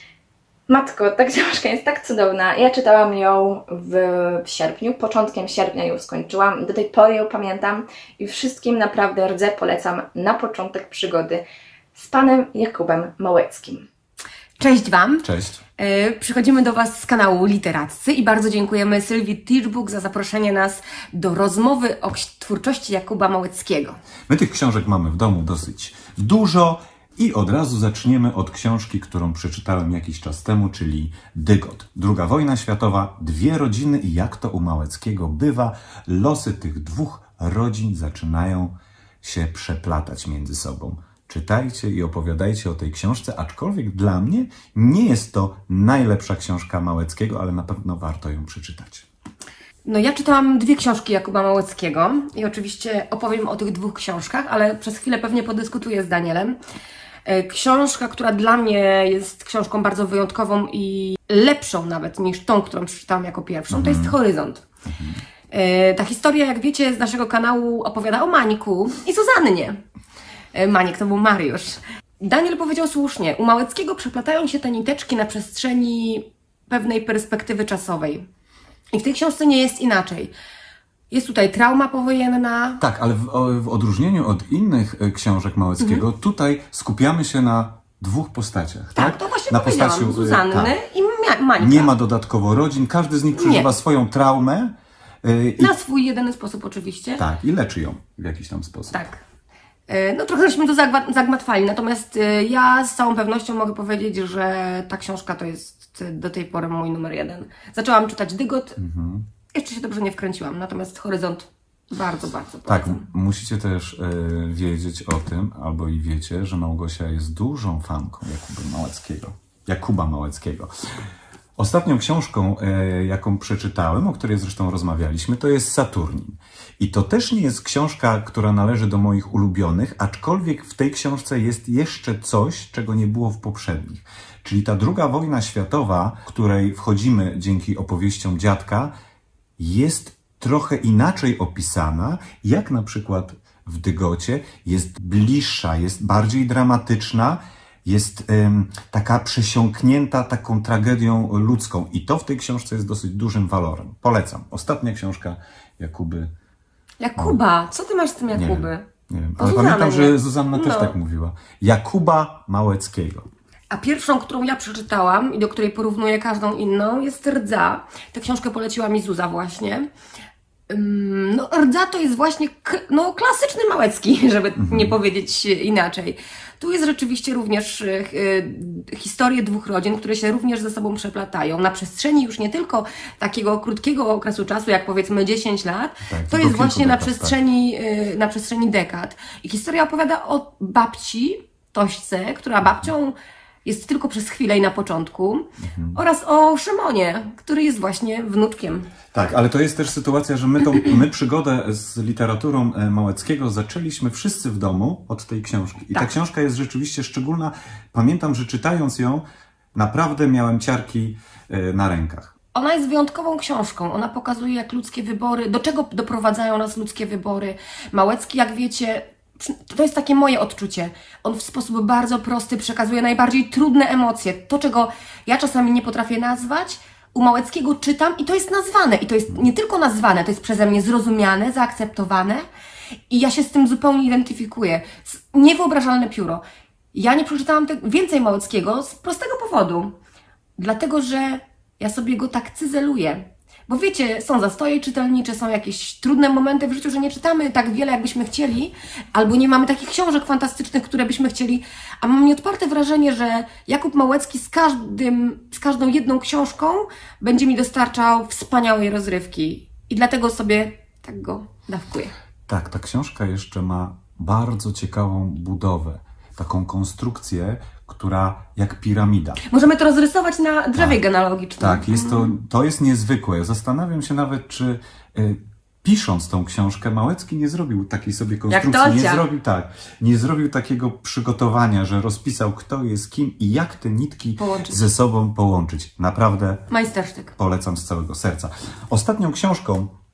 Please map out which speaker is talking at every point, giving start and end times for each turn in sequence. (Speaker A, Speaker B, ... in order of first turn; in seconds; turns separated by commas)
Speaker A: 0.7-11.4, Speaker A: 11.9-13.9, Speaker B: 14.6-15.3, Speaker C: 15.2-15.6, Speaker B: 15.8-24.0, Speaker C: 24.3-49.1, Speaker B: 49.9-56.6, Speaker B: 57.3-64.7, Speaker C: 63.7-64.2, Speaker C: 64.9-65.2, Speaker B: 65.5-69.8, Speaker B: 70.5-78.3, Speaker B: 78.9-80.3, Speaker B: 81.1-82.8, Speaker C: 82.8-90.8, Speaker B: 89.0-91.9, Speaker C: 91.6-95.7, Speaker B: 93.3-93.7, Speaker B: 95.6-97.2, Speaker C: 97.2-99.0, Speaker B: 98.9-99.2, Speaker B: 99.9-108.8, Speaker C: 108.8-109.3, Speaker B: 109.5-113.1, Speaker C: 112.7-120.7, Speaker C: 121.6-138.9, Speaker C: 139.6-156.3, Speaker B: 157.0-158.9, Speaker C: 158.3-163.3, Speaker B: 159.4-160.9, Speaker B: 163.7-169.9, Speaker B: 170.7-198.9, Speaker C: 174.6-175.0, Speaker C: 186.1-187.4, Speaker C: 192.6-192.9, Speaker C: 195.6-196.0, Speaker C: 199.1-212.3, Speaker B: 212.6-232.5, Speaker B: 233.1-236.4, Speaker B: 236.9-240.0, Speaker B: 240.6-262.1, Speaker C: 262.5-269.4, Speaker B: 269.4-272.3, Speaker C: 270.8-271.0, Speaker C: 271.6-286.7, Speaker B: 278.5-279.2, Speaker B: 284.4-284.8, Speaker B: 286.7-287.4, Speaker C: 287.4-289.9